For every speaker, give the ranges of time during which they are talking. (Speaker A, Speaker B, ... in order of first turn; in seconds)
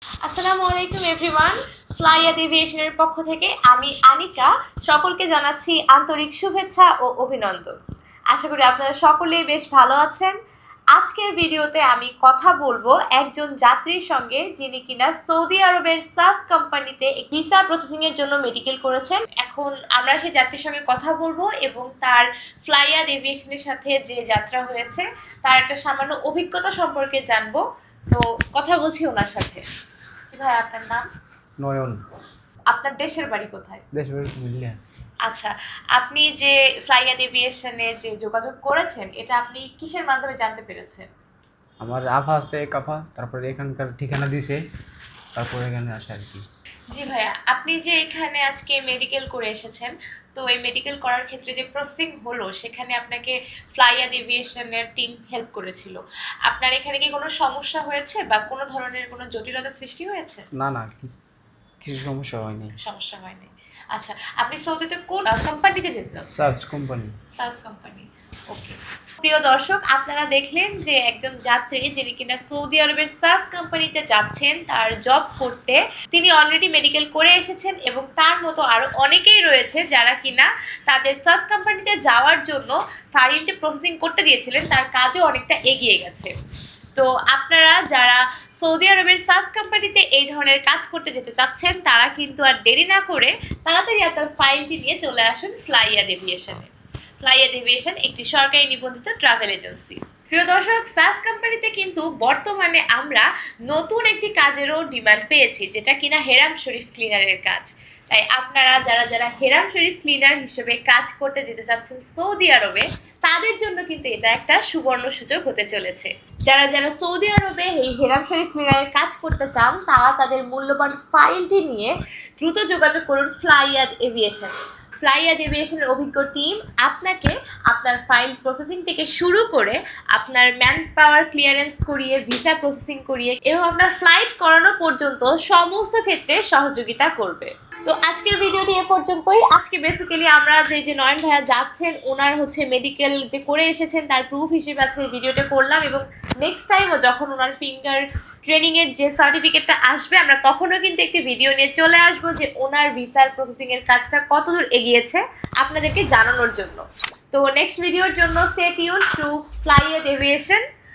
Speaker A: 0.2-7.8, 8.3-10.3, 10.9-29.6, 30.3-31.1, 32.7-33.8, 35.3-41.1, 46.9-60.5, 62.8-66.3, 67.4-86.3, 87.0-96.7, 97.2-160.6
Speaker B: 31.6-32.0, 33.9-34.8, 41.8-44.6, 45.4-46.4, 60.5-61.1, 61.8-62.7, 66.3-67.1